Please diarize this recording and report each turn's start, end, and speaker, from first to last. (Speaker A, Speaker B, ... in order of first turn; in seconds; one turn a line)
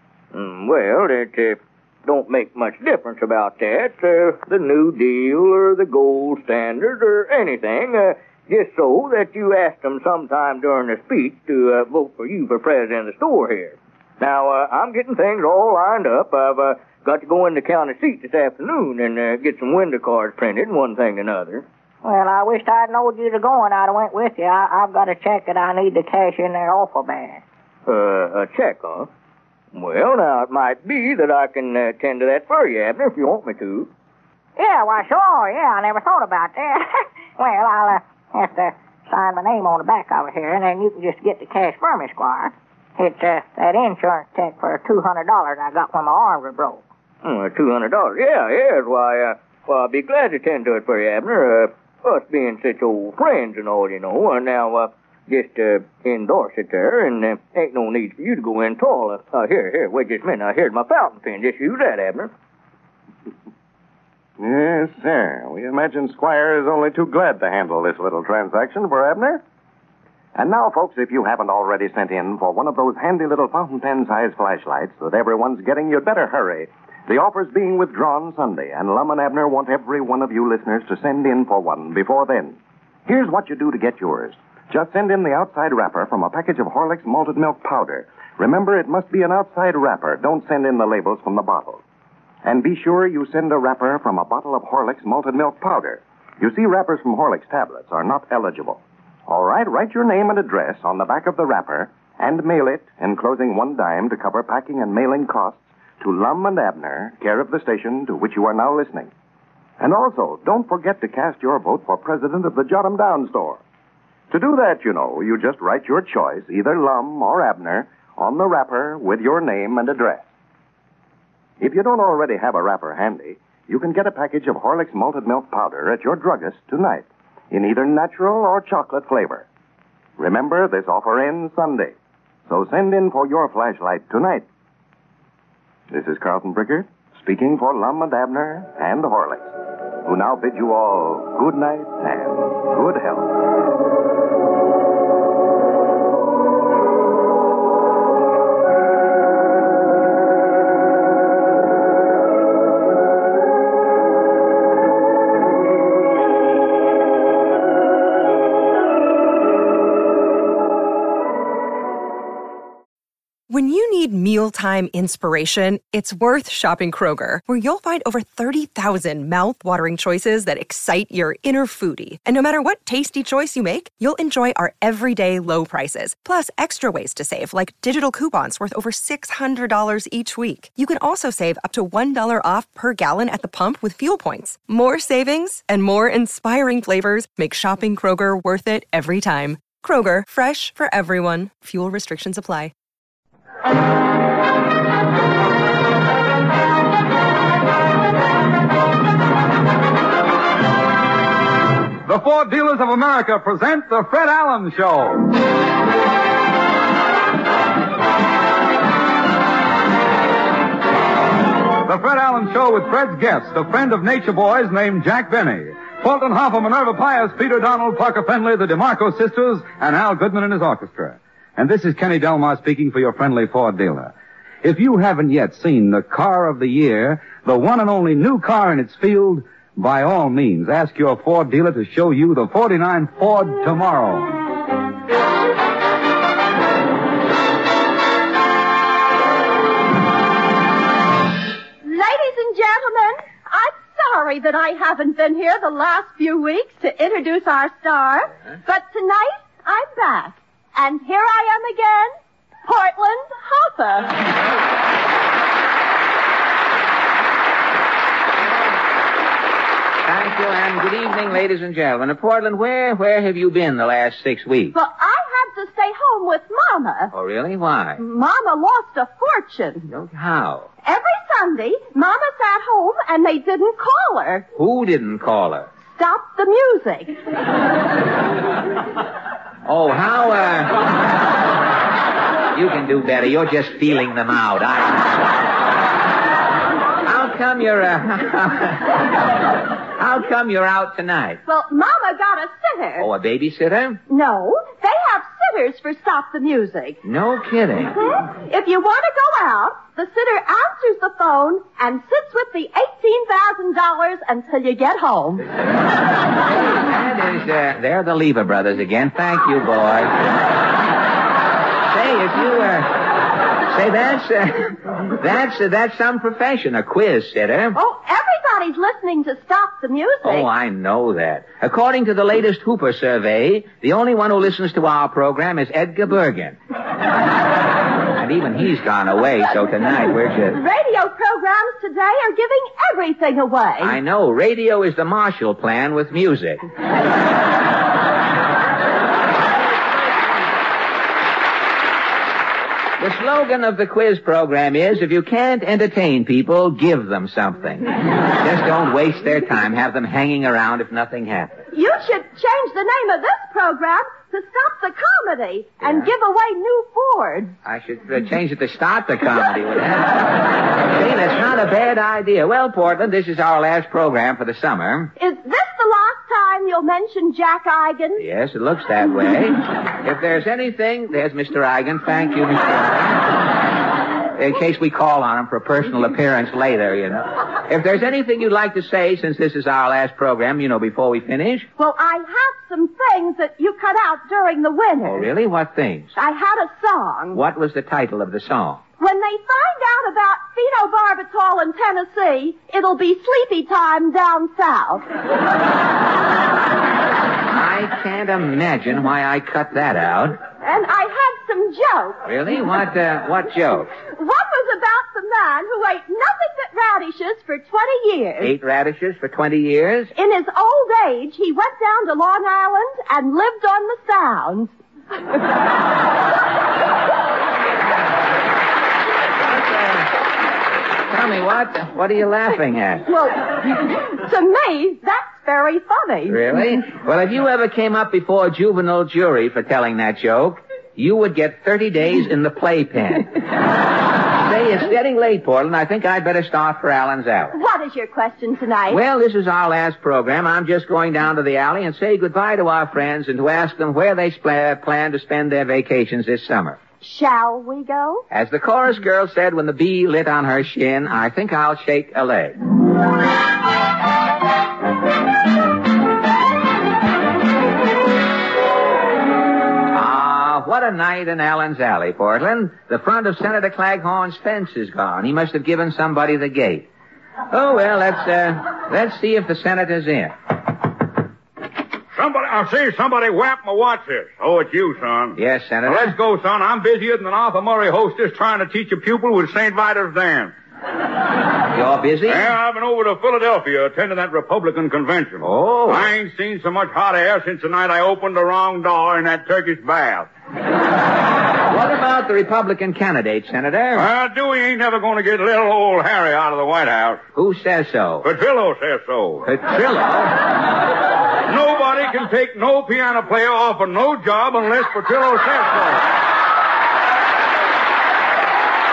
Speaker A: 0.3-21.6
Speaker B: 22.0-27.4
Speaker A: 27.9-29.1
Speaker A: 29.7-33.9
Speaker B: 34.6-46.8
Speaker A: 47.2-62.3
Speaker C: 64.4-69.4
Speaker C: 70.3-91.8
Speaker C: 92.4-109.1
Speaker C: 109.8-113.6
Speaker C: 114.3-120.3
Speaker C: 121.6-129.5
Speaker C: 130.2-131.9
Speaker C: 132.5-134.4
Speaker C: 135.9-143.3
Speaker D: 163.5-192.7
Speaker E: 202.1-205.3
Speaker E: 211.8-234.4
Speaker F: 241.8-252.1
Speaker F: 252.7-254.3
Speaker G: 260.1-264.8
Speaker F: 264.7-267.1
Speaker G: 267.1-268.0
Speaker F: 268.0-269.9
Speaker G: 269.9-270.7
Speaker F: 270.8-274.4
Speaker G: 274.6-275.7
Speaker F: 275.8-277.2
Speaker G: 279.6-281.1
Speaker G: 282.5-285.3
Speaker G: 287.0-289.2
Speaker G: 289.9-291.4
Speaker F: 291.5-293.1
Speaker G: 293.0-294.0
Speaker F: 294.1-297.0
Speaker G: 297.0-298.1
Speaker F: 298.2-305.5
Speaker G: 306.6-310.4
Speaker G: 311.9-317.8
Speaker F: 317.7-320.5
Speaker G: 320.2-326.6
Speaker G: 328.1-330.6
Speaker F: 330.5-334.0
Speaker G: 333.8-336.6
Speaker G: 343.0-351.6
Speaker F: 351.7-357.6
Speaker G: 355.8-356.1
Speaker G: 357.6-365.1
Speaker F: 365.2-368.2
Speaker G: 368.2-373.4
Speaker G: 374.4-381.7
Speaker F: 381.8-385.3
Speaker G: 385.0-386.1
Speaker F: 386.1-387.4
Speaker G: 387.3-388.8
Speaker F: 389.0-395.1
Speaker G: 397.5-400.4
Speaker F: 400.6-402.2
Speaker G: 402.2-403.9
Speaker F: 404.1-408.5
Speaker G: 408.4-410.1
Speaker F: 410.1-414.7
Speaker G: 419.7-420.0
Speaker G: 421.1-423.1
Speaker F: 423.1-426.6
Speaker G: 426.3-433.4
Speaker G: 434.3-437.6
Speaker F: 437.5-439.0
Speaker G: 438.9-446.8
Speaker F: 447.0-448.2
Speaker G: 448.3-452.6
Speaker G: 459.9-466.9
Speaker G: 467.5-470.3
Speaker E: 472.1-480.5
Speaker G: 475.4-476.1
Speaker G: 481.7-482.5
Speaker E: 482.3-490.3
Speaker G: 485.4-486.1
Speaker G: 491.7-494.1
Speaker E: 493.9-497.3
Speaker G: 497.3-498.3
Speaker E: 498.2-499.5
Speaker G: 499.4-500.4
Speaker E: 501.5-506.0